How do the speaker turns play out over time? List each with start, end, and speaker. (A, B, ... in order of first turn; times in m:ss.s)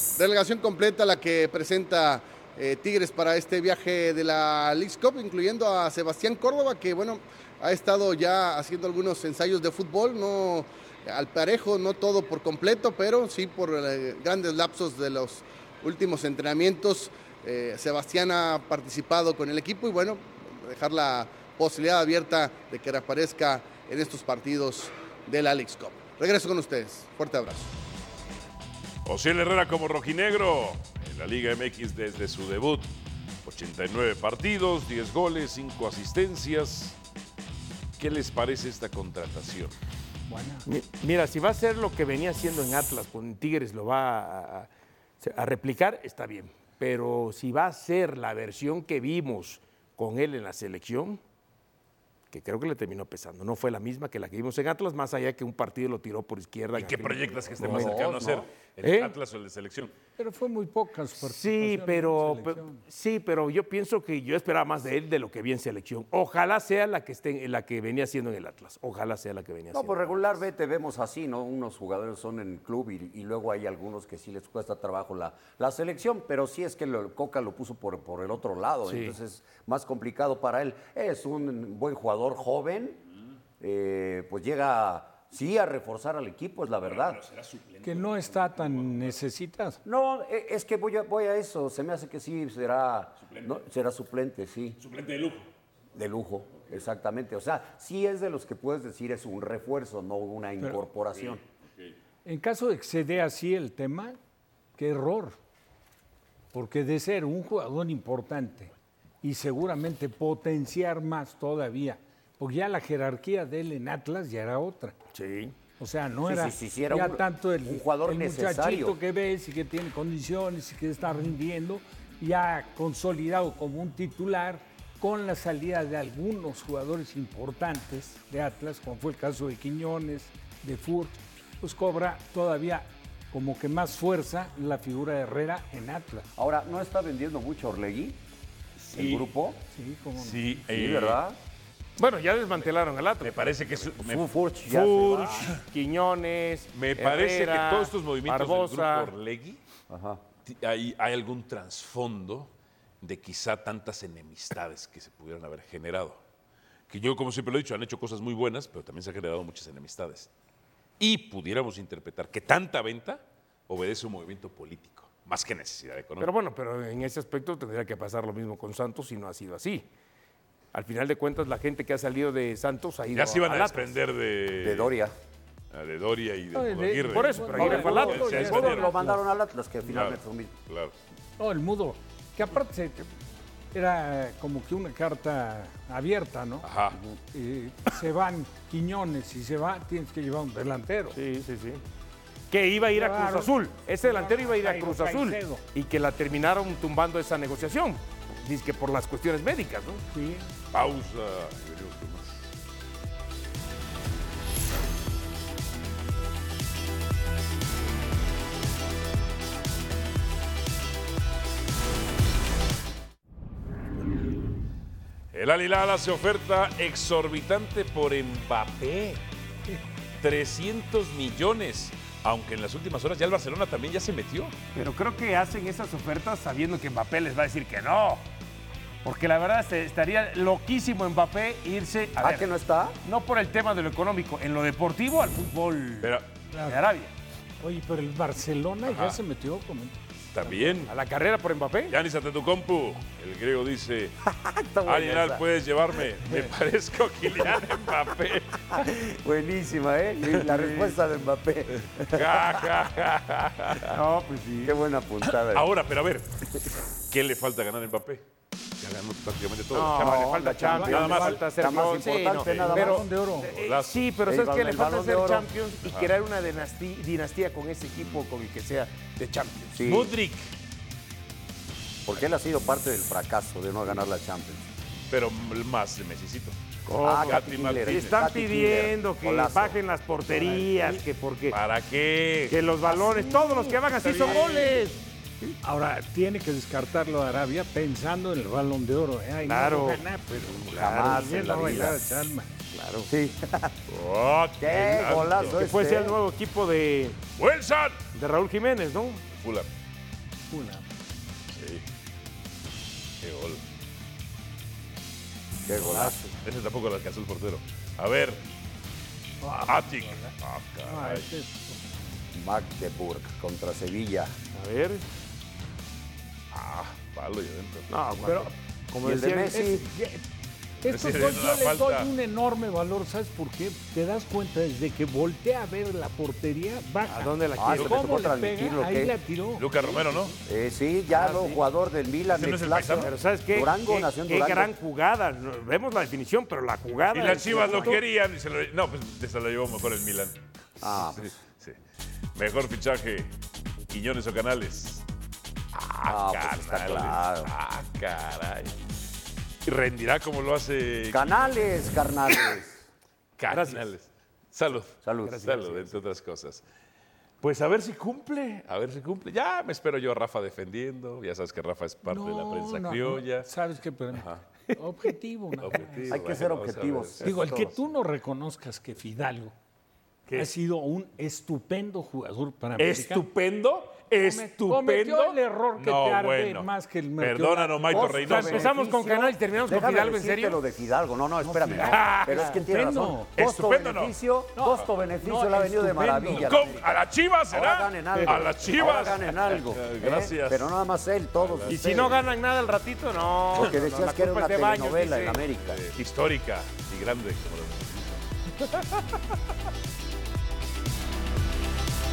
0:00.2-0:27.7 A
0:29.0-0:32.9 B
0:33.4-0:37.0 B
0:38.0-0:39.8 B
0:40.3-0:40.7 C
0:40.7-0:44.7 D
0:45.2-0:51.2 D
0:52.3-0:59.1 D
0:56.8-0:59.9 B
0:57.6-0:58.5 E
1:00.2-1:02.8 C
1:01.2-1:10.3 D
1:09.7-1:23.0 E
1:18.8-1:19.2 D
1:23.6-1:27.2 E
1:26.8-1:29.1 B
1:27.8-1:29.8 C
1:29.8-1:34.8 E
1:33.2-1:33.5 B
1:34.8-1:35.4 B
1:35.9-1:41.4 E
1:41.3-1:41.9 B
1:42.2-1:44.2 C
1:44.8-1:45.4 C
1:46.5-1:54.9 C
1:55.1-1:55.6 D
1:55.8-2:16.3 C
1:56.2-1:59.0 E
2:16.4-2:18.2 E
2:18.8-2:19.3 B
2:18.9-2:19.6 E
2:19.7-2:20.6 C
2:20.2-2:21.2 B
2:20.7-2:21.4 E
2:22.0-2:23.5 D
2:23.2-2:24.2 B
2:24.0-2:25.6 E
2:24.7-2:29.1 D
2:26.7-2:29.6 B
2:29.9-2:30.2 E
2:30.4-2:32.5 B
2:33.0-2:36.2 B
2:36.9-2:40.3 B
2:41.0-2:46.3 B
2:46.2-2:49.9 D
2:50.7-2:53.9 D
2:53.1-2:54.9 B
2:54.6-2:55.1 E
2:55.7-2:58.9 B
2:56.5-2:59.2 C
2:57.1-2:58.9 D
2:57.6-3:00.5 E
2:59.9-3:00.9 B
3:01.4-3:03.1 C
3:03.7-3:06.7 C
3:06.6-3:07.0 B
3:07.3-3:11.2 C
3:11.1-3:11.8 D
3:12.5-3:20.0 D
3:12.9-3:15.6 C
3:20.1-3:20.5 C
3:20.7-3:22.4 B
3:35.3-3:39.2 B
3:40.2-3:44.5 B
3:44.7-3:48.2 D
3:49.0-3:52.5 D
3:52.2-3:53.0 E
3:53.0-3:57.1 D
3:56.0-3:56.3 B
3:56.5-3:56.8 C
3:57.6-4:00.0 C
3:58.8-3:59.2 B
4:00.3-4:00.9 B
4:00.5-4:00.8 C
4:00.9-4:01.9 D
4:01.9-4:04.1 B
4:04.2-4:05.4 E
4:04.8-4:08.6 B
4:08.7-4:12.7 E
4:10.3-4:10.6 B
4:10.5-4:10.9 D
4:12.0-4:13.9 B
4:13.9-4:14.8 D
4:14.6-4:15.7 E
4:15.3-4:16.5 B
4:17.1-4:18.2 B
4:18.8-4:21.4 B
4:19.7-4:29.8 D
4:20.0-4:23.0 E
4:20.6-4:21.1 C
4:22.4-4:22.7 B
4:22.6-4:23.5 C
4:23.4-4:24.1 B
4:24.2-4:25.5 E
4:25.8-4:26.2 B
4:27.9-4:28.2 B
4:29.7-4:30.1 E
4:29.8-4:30.5 B
4:32.0-4:34.6 E
4:35.1-4:36.6 B
4:36.9-4:39.8 E
4:36.9-4:41.6 D
4:37.1-4:38.2 B
4:40.3-4:40.7 E
4:41.5-4:42.6 B
4:42.5-4:45.5 D
4:43.0-4:44.3 C
4:44.0-4:44.5 B
4:45.6-4:52.5 C
4:49.4-4:50.0 D
4:50.6-4:52.0 E
4:50.7-4:51.6 D
4:52.7-4:53.1 D
4:53.1-4:53.8 E
4:53.9-4:57.2 D
4:54.4-4:55.6 B
4:54.6-4:56.2 E
4:57.4-4:58.1 B
4:58.1-4:59.2 D
4:59.3-4:59.7 B
5:00.5-5:00.8 C
5:01.5-5:01.8 B
5:03.2-5:03.6 B
5:05.6-5:06.2 E
5:05.8-5:06.3 D
5:06.4-5:08.4 B
5:09.4-5:11.8 C
5:09.6-5:11.3 B
5:12.3-5:14.3 E
5:14.5-5:15.0 D
5:16.5-5:17.9 B
5:17.9-5:19.6 D
5:19.0-5:19.8 E
5:19.5-5:20.2 C
5:20.8-5:30.3 C
5:20.8-5:22.1 B
5:27.1-5:28.3 D
5:27.6-5:29.2 E
5:29.5-5:30.3 B
5:30.4-5:34.7 E
5:31.1-5:31.6 D
5:32.3-5:33.1 B
5:32.9-5:38.0 D
5:37.1-5:41.8 B
5:40.8-5:41.4 E
5:42.4-5:43.3 B
5:43.9-5:45.0 B
5:45.7-5:48.7 B
5:46.0-5:47.5 E
5:49.6-5:51.9 B
5:51.1-5:52.9 E
5:53.4-5:56.6 B
5:53.5-5:53.9 D
5:55.0-5:55.5 E
5:55.2-5:56.0 D
5:57.4-5:58.4 D
5:58.3-6:03.5 B
6:02.0-6:06.2 C
6:04.1-6:04.4 B
6:05.6-6:07.6 B
6:06.1-6:07.7 E
6:07.2-6:09.5 C
6:10.3-6:13.2 C
6:12.8-6:13.8 D
6:12.8-6:18.7 B
6:14.2-6:18.2 C
6:14.7-6:15.2 D
6:17.9-6:26.9 E
6:18.0-6:20.6 D
6:21.4-6:23.3 C
6:21.8-6:22.5 B
6:23.4-6:24.1 B
6:24.6-6:26.8 C
6:26.2-6:30.8 B
6:27.5-6:32.2 E
6:31.4-6:32.1 B
6:31.7-6:35.4 D
6:33.5-6:35.8 E
6:35.6-6:38.2 B